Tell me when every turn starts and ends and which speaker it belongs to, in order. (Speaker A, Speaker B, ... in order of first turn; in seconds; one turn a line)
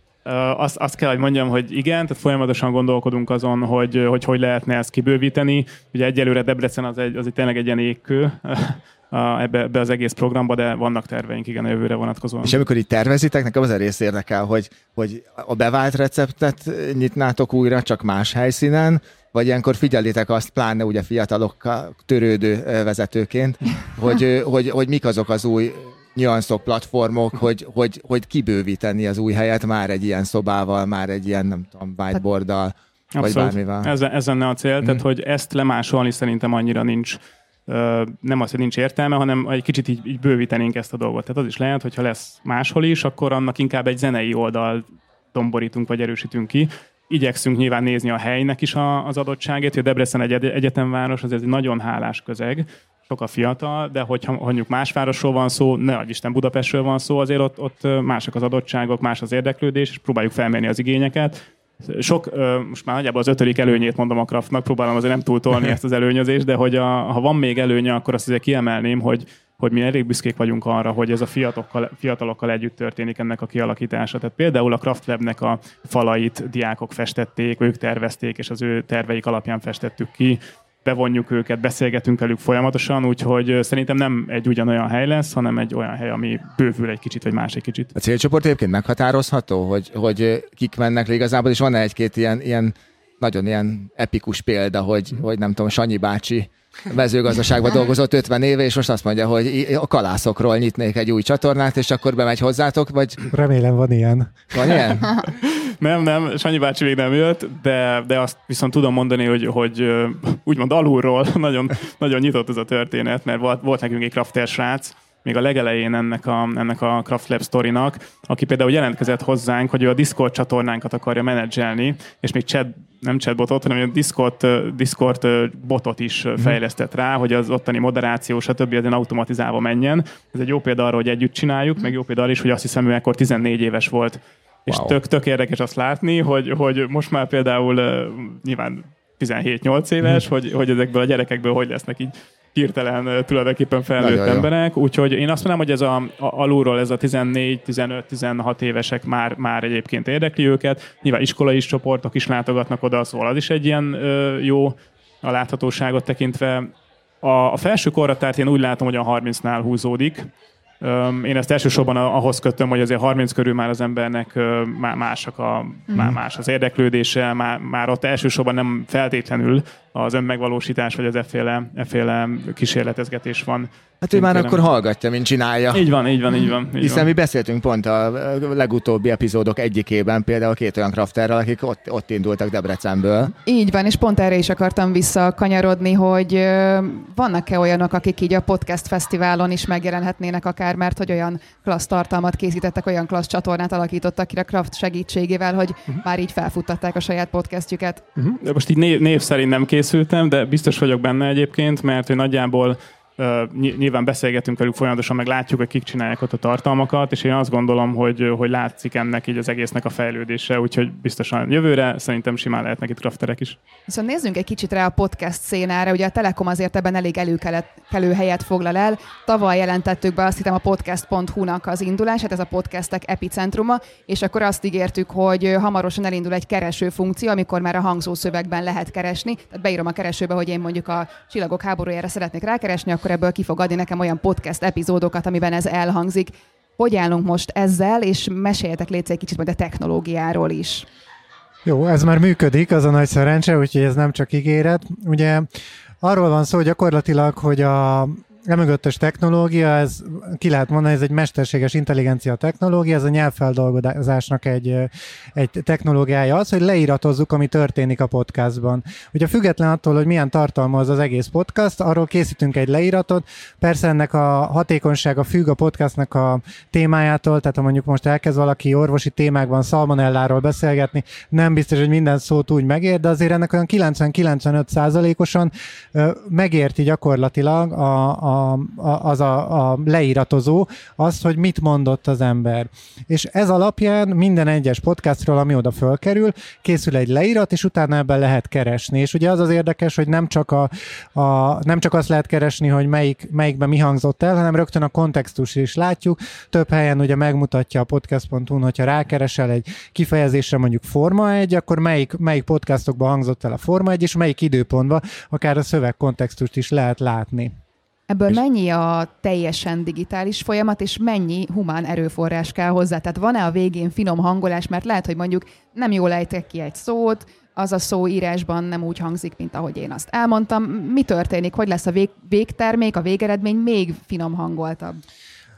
Speaker A: 0.2-12.6
Speaker B: 12.4-33.9
Speaker A: 33.1-87.9
Speaker B: 87.9-103.2
Speaker C: 103.3-104.3
Speaker B: 104.5-105.1
Speaker A: 105.2-156.7
Speaker B: 134.7-134.9
Speaker B: 144.0-144.5
Speaker A: 157.2-160.3
Speaker A: 160.8-174.6
Speaker B: 174.0-175.8
Speaker A: 175.7-177.1
Speaker B: 176.8-183.3
Speaker D: 183.4-198.0
Speaker A: 198.2-213.6
Speaker D: 213.9-240.8
Speaker C: 241.7-245.4
Speaker C: 246.0-307.5
Speaker D: 308.1-325.0